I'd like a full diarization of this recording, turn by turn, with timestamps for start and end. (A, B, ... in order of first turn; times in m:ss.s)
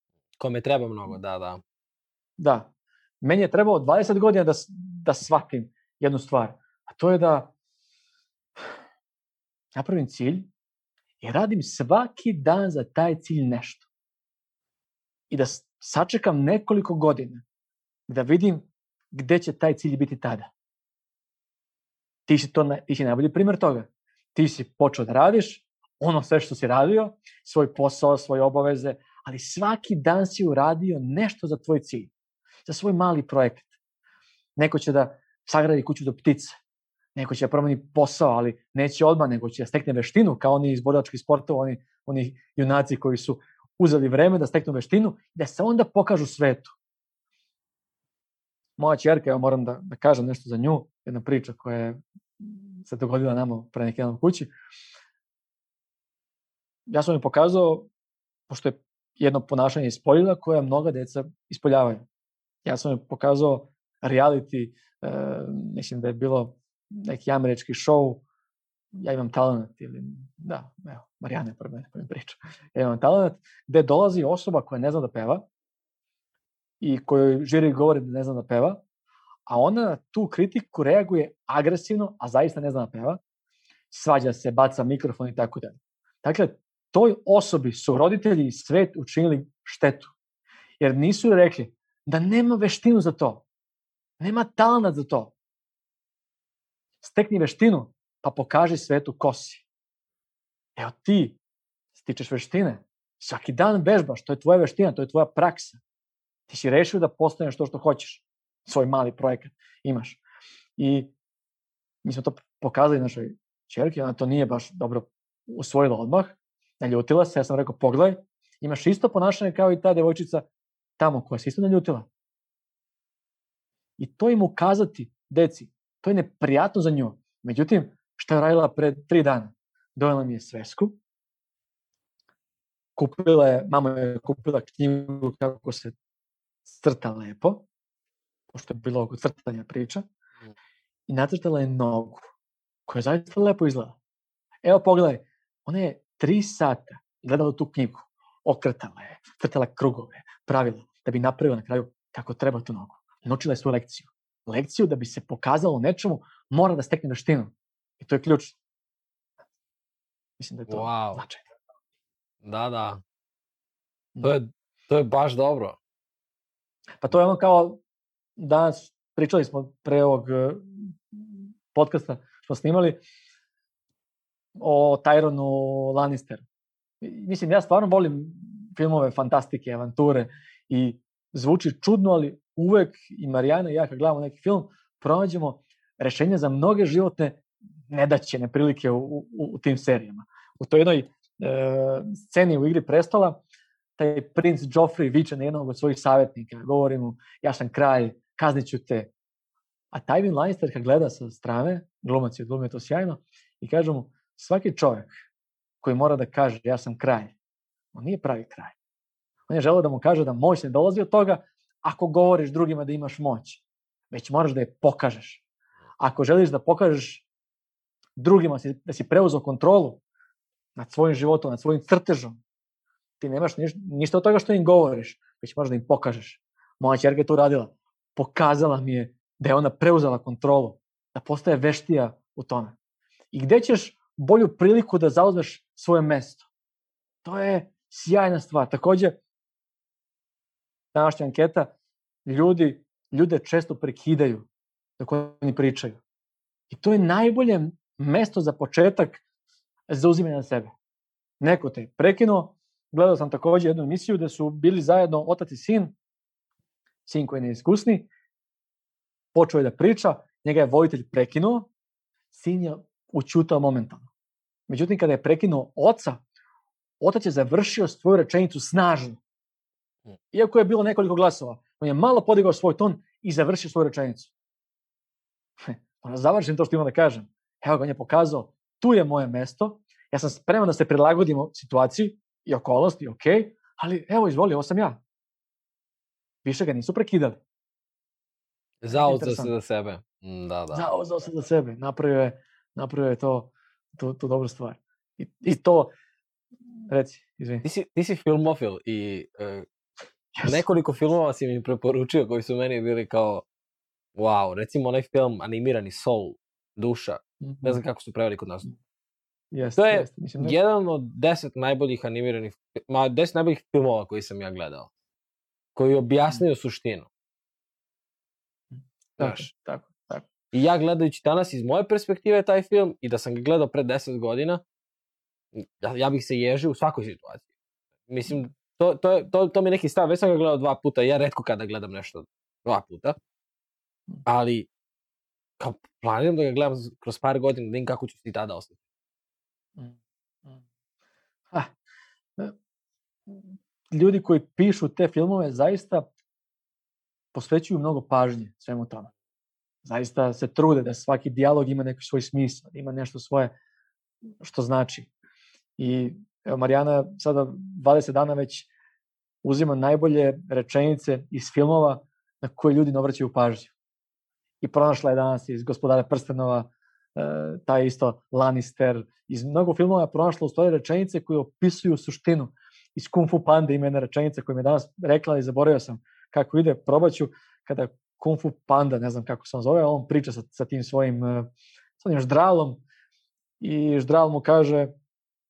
0:00.4-0:01.6 A
0:02.4-0:02.7 B
0:03.2-0:07.5 B
0:09.8-0:10.5 B
0:11.2-0:13.9 B
0:15.3-0:17.4 B
0:18.1-0:20.5 B
0:22.3-0:32.1 B
0:32.7-0:33.7 B
0:34.6-0:36.6 B
0:37.2-0:46.8 B
0:48.8-0:54.5 B
0:56.9-0:57.9 B
0:58.5-1:02.0 B
1:02.6-1:08.2 B
1:09.0-1:15.5 B
1:16.8-1:18.8 B
1:19.5-1:23.2 B
1:23.9-1:30.1 B
1:30.8-1:33.4 B
1:34.2-1:35.3 B
1:37.0-1:39.7 B
1:40.8-1:41.4 B
1:42.0-1:45.8 B
1:46.5-1:50.2 B
1:50.8-1:51.1 B
1:52.0-2:00.5 B
2:01.0-2:02.1 B
2:04.0-2:11.0 B
2:13.0-2:16.0 B
2:16.7-2:17.7 B
2:18.5-2:20.0 B
2:21.1-2:22.3 B
2:22.9-2:24.0 B
2:24.6-2:38.6 B
2:40.4-2:41.5 B
2:40.7-2:41.2 A
2:42.4-2:43.0 A
2:44.2-2:45.8 A
2:47.0-2:47.8 B
2:48.4-2:53.0 B
2:54.6-2:56.4 B
2:57.0-3:13.4 B
3:14.0-3:19.1 B
3:19.9-3:25.1 B
3:25.8-3:27.4 B
3:27.9-3:28.8 B
3:29.5-3:35.4 B
3:36.0-3:37.3 B
3:38.2-3:40.0 B
3:40.8-3:42.4 B
3:43.2-3:52.8 B
3:53.3-3:56.5 B
3:57.2-3:59.2 B
4:00.9-4:01.7 B
4:02.3-4:04.5 B
4:05.0-4:06.0 B
4:06.7-4:09.2 B
4:09.9-4:10.8 B
4:11.4-4:16.0 B
4:17.1-4:18.1 B
4:19.3-4:21.7 B
4:22.3-4:24.1 B
4:24.7-4:26.2 B
4:27.0-4:29.2 B
4:30.3-4:34.3 B
4:35.6-4:45.0 B
4:46.4-4:47.4 B
4:48.8-4:50.9 A
4:48.9-4:49.5 B
4:50.7-4:55.9 B
4:56.9-4:57.6 B
4:57.6-4:59.7 A
5:00.4-5:00.6 B
5:00.4-5:03.4 A
5:04.2-5:08.7 A
5:07.4-5:07.8 B
5:09.5-5:10.6 B
5:09.8-5:14.9 A
5:15.8-5:17.1 A
5:19.2-5:20.3 B
5:19.2-5:19.5 A
5:20.5-5:24.6 A
5:25.6-5:27.5 A
5:28.1-5:33.2 A
5:34.3-5:34.7 A
5:35.6-5:38.8 A
5:39.8-5:40.6 B
5:43.3-5:46.1 B
5:47.3-5:49.1 B
5:49.8-5:53.5 B
5:54.4-5:55.1 B
5:55.8-5:58.7 B
5:59.4-6:03.7 B
6:04.6-6:22.8 B
6:23.6-6:24.9 B